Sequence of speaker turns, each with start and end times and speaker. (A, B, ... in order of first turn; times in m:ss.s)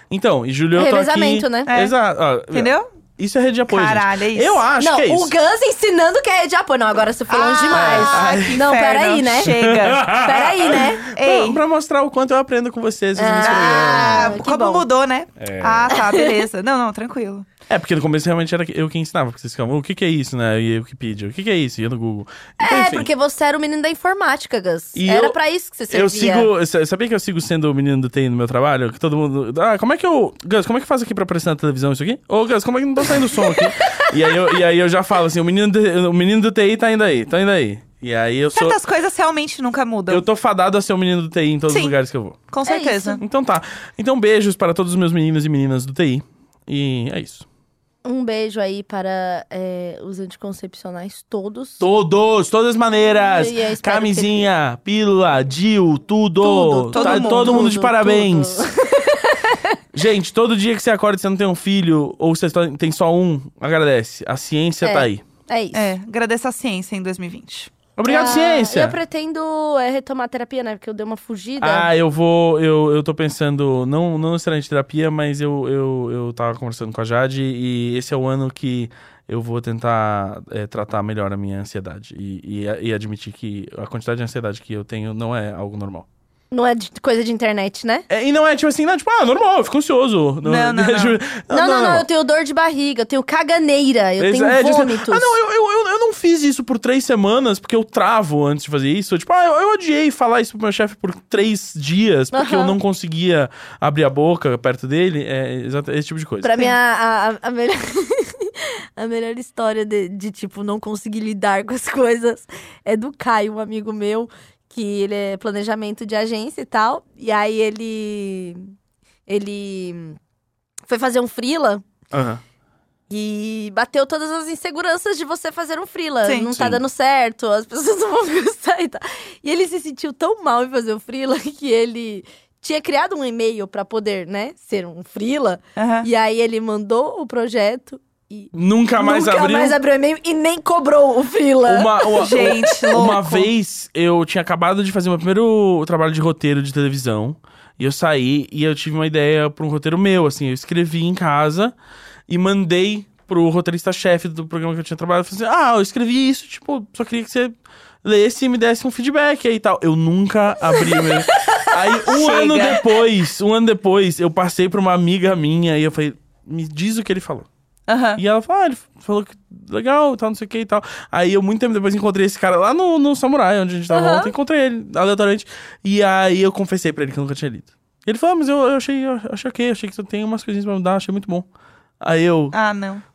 0:00.1-0:05.3 A
0:00.8-0:01.7 B
0:01.7-0:01.9 C
0:02.5-0:02.9 C
0:03.7-0:04.6 C
0:04.8-0:09.6 B
0:07.3-0:10.1 C
0:07.7-0:08.6 A
0:09.4-0:14.4 A
0:10.1-0:11.0 B
0:11.1-0:11.6 C
0:13.2-0:14.8 B
0:13.4-0:17.5 C
0:15.4-0:15.9 A
0:15.9-0:16.4 B
0:17.7-0:23.1 A
0:22.6-0:26.5 B
0:25.0-0:25.4 A
0:25.9-0:38.8 A
0:33.4-0:34.1 B
0:38.5-0:40.3 C
0:40.1-0:42.4 A
0:41.7-0:42.0 C
0:42.5-0:43.2 C
0:42.6-0:43.2 B
0:43.2-0:47.4 A
0:48.0-0:51.9 B
0:51.8-0:58.6 A
0:53.3-0:54.5 B
0:56.4-0:59.8 B
0:56.9-0:57.8 C
0:59.9-1:05.2 A
1:04.8-1:05.9 B
1:05.7-1:07.7 C
1:08.0-1:09.0 A
1:08.1-1:11.9 B
1:11.6-1:26.1 A
1:26.5-1:28.1 B
1:28.1-1:32.1 A
1:30.4-1:31.2 C
1:31.5-1:35.4 B
1:34.2-1:46.8 A
1:42.3-1:42.8 B
1:46.4-1:58.7 B
1:59.3-2:00.2 B
2:00.9-2:01.8 B
2:02.1-2:02.4 A
2:03.1-2:22.8 B
2:06.2-2:06.5 C
2:06.5-2:06.8 A
2:15.8-2:16.1 C
2:18.5-2:19.8 A
2:21.6-2:31.7 A
2:22.2-2:23.5 C
2:32.3-2:47.5 A
2:42.1-2:42.9 C
2:47.9-2:48.2 C
2:48.2-3:01.5 A
2:53.9-2:54.3 B
3:02.0-3:02.6 A
3:02.5-3:03.0 C